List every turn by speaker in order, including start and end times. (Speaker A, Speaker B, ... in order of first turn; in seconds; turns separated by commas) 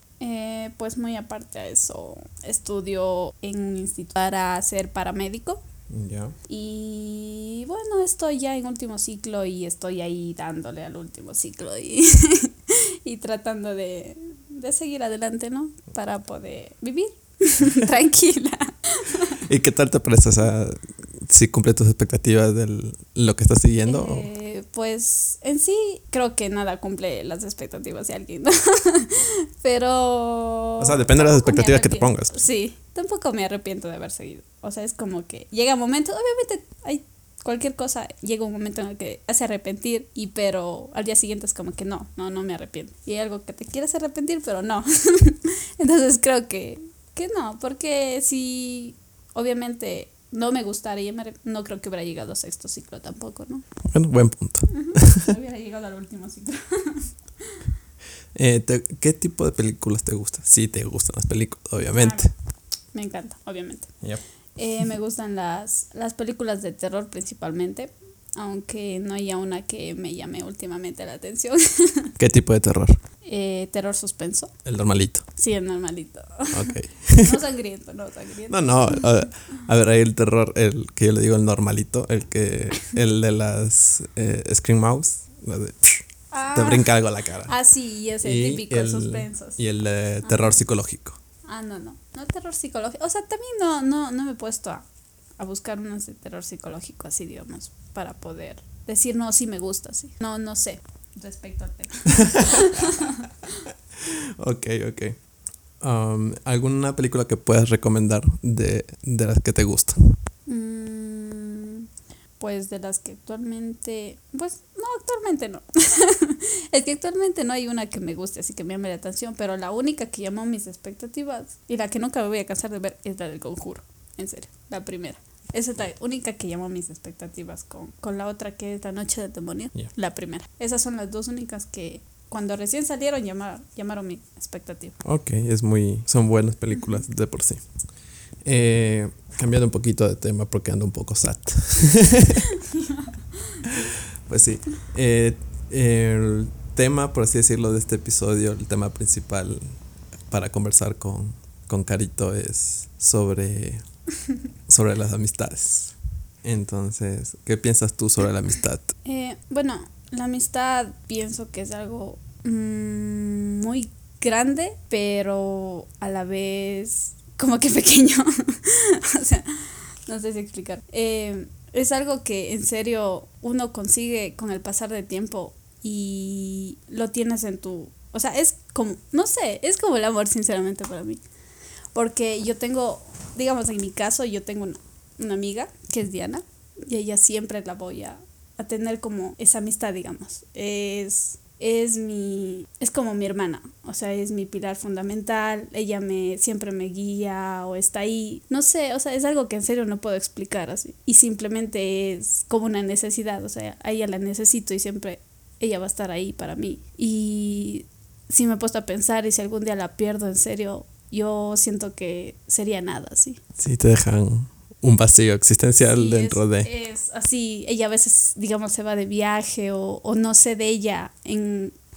Speaker A: 0.2-5.6, Speaker B: 5.9-6.3, Speaker A: 6.5-19.4, Speaker B: 19.4-24.3, Speaker A: 23.9-53.7, Speaker B: 30.8-32.4, Speaker B: 53.9-55.2, Speaker A: 54.7-57.1, Speaker B: 58.3-62.3, Speaker A: 61.8-62.3, Speaker A: 62.9-64.0, Speaker A: 64.5-72.1, Speaker B: 72.2-73.0, Speaker A: 73.2-74.5, Speaker B: 74.6-75.2, Speaker A: 75.3-79.1, Speaker B: 76.5-77.4, Speaker B: 78.5-87.6, Speaker A: 86.3-89.6, Speaker B: 88.2-91.2, Speaker A: 90.2-90.5, Speaker A: 91.5-94.8, Speaker A: 95.4-103.1, Speaker B: 102.2-102.6, Speaker B: 104.1-105.2, Speaker B: 105.8-110.2, Speaker A: 110.5-111.8, Speaker A: 112.4-135.0, Speaker B: 135.0-137.6, Speaker A: 136.7-137.0, Speaker B: 138.4-142.5, Speaker B: 143.6-149.8, Speaker B: 150.3-153.8, Speaker B: 154.7-158.9, Speaker A: 159.0-181.2, Speaker A: 181.9-213.4, Speaker B: 213.6-216.7, Speaker A: 215.8-221.7